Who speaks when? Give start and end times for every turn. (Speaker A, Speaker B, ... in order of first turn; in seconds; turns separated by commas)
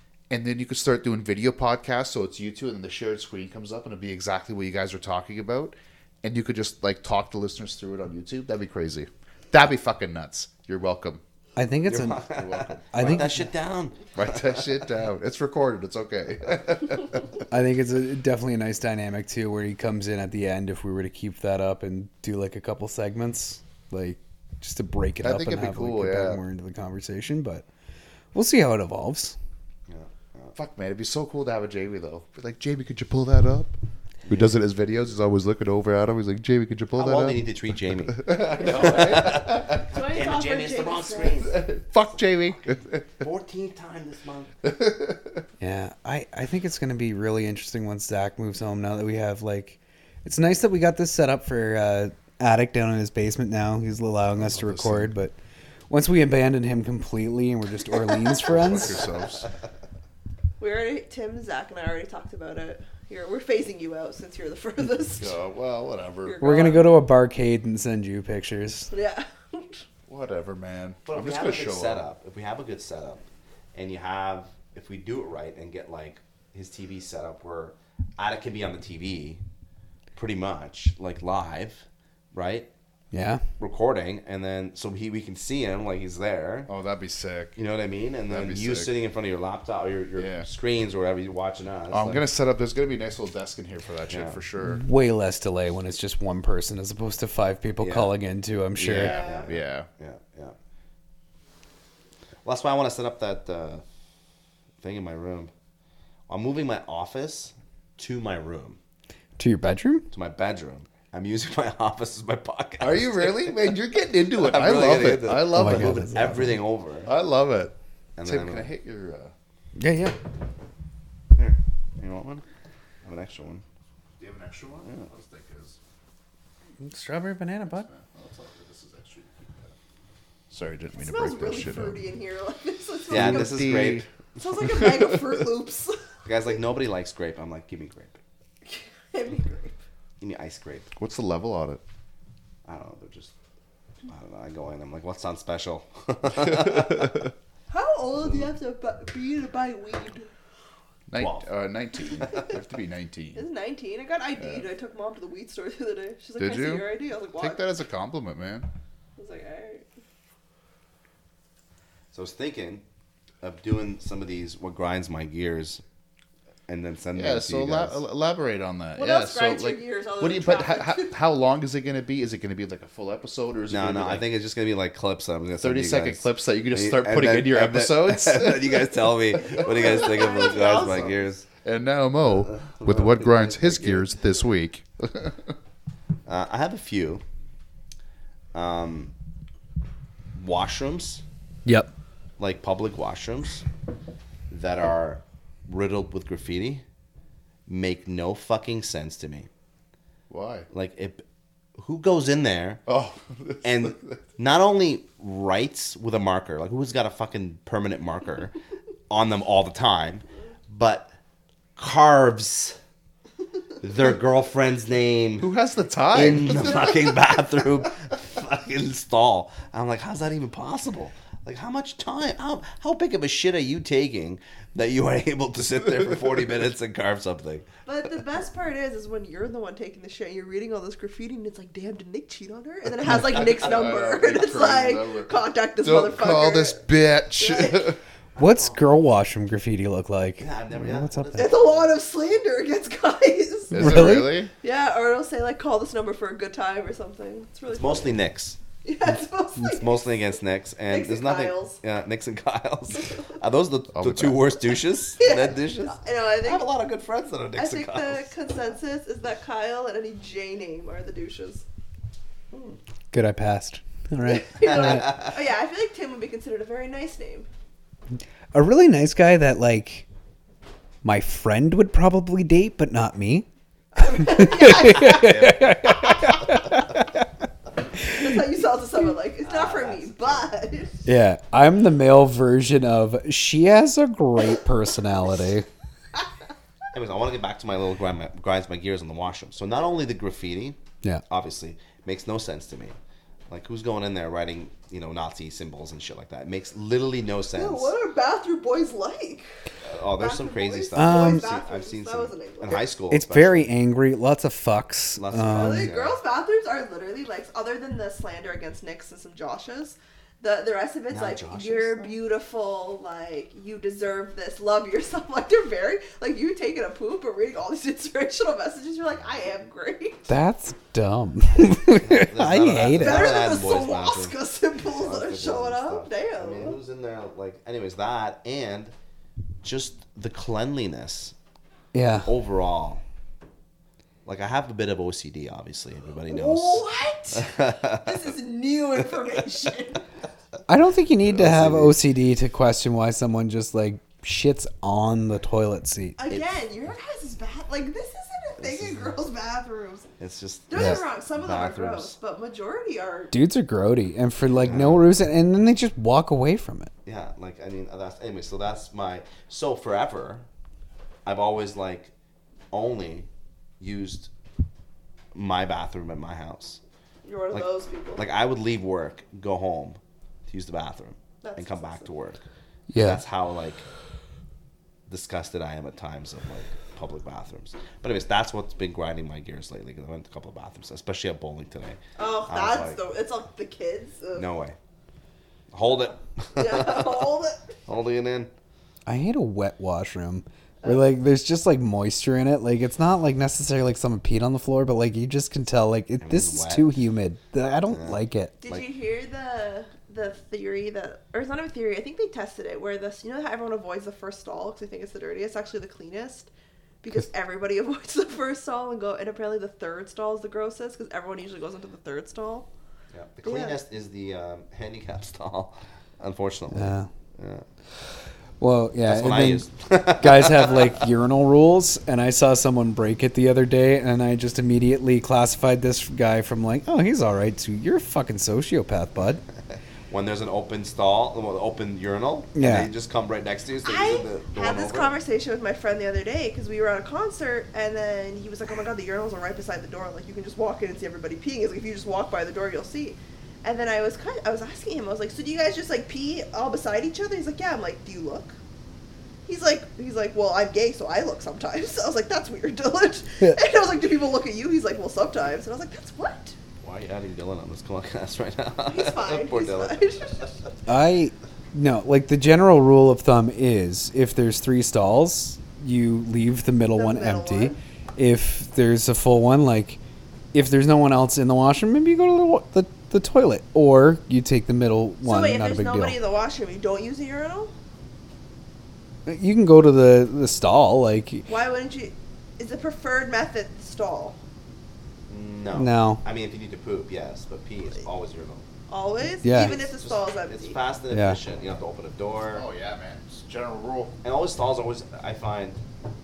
Speaker A: 0.3-11.2, Speaker B: 11.6-12.2, Speaker C: 11.9-14.9, Speaker A: 12.2-13.3, Speaker B: 12.9-13.5, Speaker A: 14.1-17.4, Speaker B: 17.5-27.7, Speaker A: 25.2-26.4, Speaker B: 28.3-29.4, Speaker C: 29.9-30.6, Speaker A: 30.5-33.7, Speaker A: 34.2-37.5, Speaker C: 36.9-44.5, Speaker A: 38.1-39.9, Speaker D: 39.9-41.6, Speaker A: 41.4-43.2, Speaker A: 44.6-45.4, Speaker B: 45.6-55.3, Speaker A: 54.3-55.1, Speaker B: 55.9-59.0, Speaker A: 58.5-59.5, Speaker D: 60.6-65.4, Speaker A: 65.2-66.7, Speaker D: 66.2-66.9, Speaker B: 66.4-68.9, Speaker D: 68.9-69.8, Speaker A: 70.1-72.0, Speaker C: 71.0-79.4, Speaker C: 80.2-82.7, Speaker B: 83.1-83.5, Speaker C: 83.6-86.7, Speaker A: 86.7-87.6, Speaker C: 87.5-92.2, Speaker A: 88.3-88.9, Speaker A: 90.2-90.5, Speaker A: 91.9-94.8, Speaker C: 94.1-94.4, Speaker B: 94.6-99.2, Speaker C: 97.8-98.1, Speaker A: 98.8-99.9, Speaker D: 98.9-99.5, Speaker C: 99.0-100.5, Speaker C: 102.4-103.8, Speaker C: 104.8-105.5, Speaker C: 106.3-108.8, Speaker B: 109.4-110.0, Speaker C: 110.1-113.8, Speaker A: 112.8-116.4, Speaker C: 114.3-117.1, Speaker B: 115.5-116.5, Speaker A: 117.0-117.7, Speaker C: 118.2-118.7, Speaker A: 118.2-119.3, Speaker B: 119.8-120.2, Speaker C: 121.3-122.4, Speaker C: 123.0-123.6, Speaker A: 124.2-125.8, Speaker B: 126.8-127.9, Speaker A: 127.8-129.7, Speaker A: 130.5-132.0, Speaker D: 130.9-133.7, Speaker C: 133.1-134.1, Speaker A: 133.1-134.1, Speaker D: 134.4-136.0, Speaker A: 134.6-135.3, Speaker C: 136.2-138.2, Speaker D: 138.6-139.8, Speaker C: 140.2-140.9, Speaker A: 140.9-141.8, Speaker C: 142.7-143.3, Speaker C: 144.1-147.3, Speaker D: 147.7-150.3, Speaker A: 151.1-153.4, Speaker C: 151.1-151.5, Speaker C: 152.2-152.5, Speaker D: 153.3-157.6, Speaker A: 154.4-154.7, Speaker A: 156.4-158.7, Speaker D: 159.2-159.8, Speaker C: 162.1-162.8, Speaker C: 163.4-165.8, Speaker C: 166.7-168.0, Speaker A: 167.1-174.2, Speaker D: 169.0-171.2, Speaker C: 173.7-181.4, Speaker A: 175.6-178.9, Speaker D: 179.3-181.3, Speaker A: 181.6-185.5, Speaker C: 182.4-184.1, Speaker C: 186.2-187.2, Speaker C: 188.5-189.1, Speaker C: 190.3-191.2, Speaker B: 191.6-191.9, Speaker C: 192.4-193.7, Speaker C: 194.5-196.8, Speaker C: 197.7-199.5, Speaker A: 200.3-200.7, Speaker C: 200.7-201.2, Speaker C: 201.8-202.8, Speaker A: 202.9-204.2, Speaker C: 203.6-208.6, Speaker C: 209.1-211.1, Speaker C: 211.8-212.8, Speaker C: 213.8-215.5, Speaker A: 215.4-216.9, Speaker C: 216.1-227.7, Speaker D: 227.8-236.8, Speaker A: 233.3-238.0, Speaker C: 233.4-234.0, Speaker D: 237.4-237.9, Speaker C: 238.4-238.8, Speaker B: 238.4-241.6, Speaker C: 240.4-241.9, Speaker D: 241.3-248.2, Speaker B: 243.7-244.4, Speaker A: 243.7-244.5, Speaker C: 247.7-248.6, Speaker D: 248.8-250.3, Speaker C: 249.7-258.3, Speaker D: 250.9-251.8, Speaker A: 253.9-254.4, Speaker D: 255.2-256.7, Speaker D: 257.6-261.6, Speaker B: 263.1-265.1, Speaker D: 264.2-267.5, Speaker C: 264.6-265.4, Speaker B: 268.5-270.0, Speaker B: 271.0-273.4, Speaker D: 273.9-275.4, Speaker B: 274.0-277.3, Speaker C: 274.9-276.6, Speaker D: 278.0-281.1, Speaker C: 279.4-280.5, Speaker B: 281.0-285.6, Speaker C: 286.9-292.9, Speaker C: 293.5-297.9, Speaker D: 297.5-299.4, Speaker C: 299.8-303.7, Speaker D: 300.2-302.9, Speaker B: 300.9-301.5, Speaker B: 303.1-305.9, Speaker C: 305.2-306.2, Speaker D: 305.4-320.3, Speaker C: 311.1-312.1, Speaker B: 320.3-323.3, Speaker C: 321.5-328.9, Speaker D: 323.0-326.8, Speaker C: 329.6-331.3, Speaker B: 331.9-332.3, Speaker C: 332.2-333.0, Speaker C: 334.2-338.2, Speaker D: 336.3-340.0, Speaker B: 340.7-346.2, Speaker C: 341.2-342.0, Speaker D: 346.2-350.1, Speaker C: 346.3-346.5, Speaker C: 348.6-349.1, Speaker C: 350.2-352.1, Speaker D: 350.7-353.3, Speaker B: 353.3-356.9, Speaker C: 354.5-355.1, Speaker C: 357.1-360.4, Speaker C: 361.2-362.1, Speaker C: 362.7-363.3, Speaker C: 363.8-364.3, Speaker C: 365.3-366.8, Speaker D: 367.2-368.2, Speaker C: 367.5-373.8, Speaker D: 371.4-372.1, Speaker B: 372.9-373.2, Speaker C: 375.1-383.0, Speaker D: 382.2-384.4, Speaker C: 384.3-384.8, Speaker C: 385.7-387.3, Speaker D: 386.6-387.7, Speaker C: 387.9-388.5, Speaker B: 389.1-398.5, Speaker C: 396.2-396.9, Speaker C: 397.9-398.8, Speaker D: 398.6-406.5, Speaker D: 407.0-412.7, Speaker C: 413.1-417.6, Speaker D: 413.4-413.8, Speaker B: 416.7-417.1, Speaker B: 418.6-429.4, Speaker C: 419.1-421.0, Speaker C: 430.1-435.1, Speaker B: 432.6-432.9, Speaker D: 433.8-448.6, Speaker D: 449.4-456.5, Speaker C: 456.8-459.9, Speaker D: 458.9-460.8, Speaker B: 460.9-470.0, Speaker D: 466.9-467.8, Speaker B: 470.5-476.2, Speaker D: 475.2-477.7, Speaker B: 479.2-481.5, Speaker D: 481.5-484.4, Speaker C: 485.3-488.6, Speaker B: 485.7-486.2, Speaker D: 488.9-490.8, Speaker B: 489.4-489.8, Speaker C: 489.4-492.6, Speaker B: 491.1-491.4, Speaker A: 492.5-494.1, Speaker C: 494.2-495.8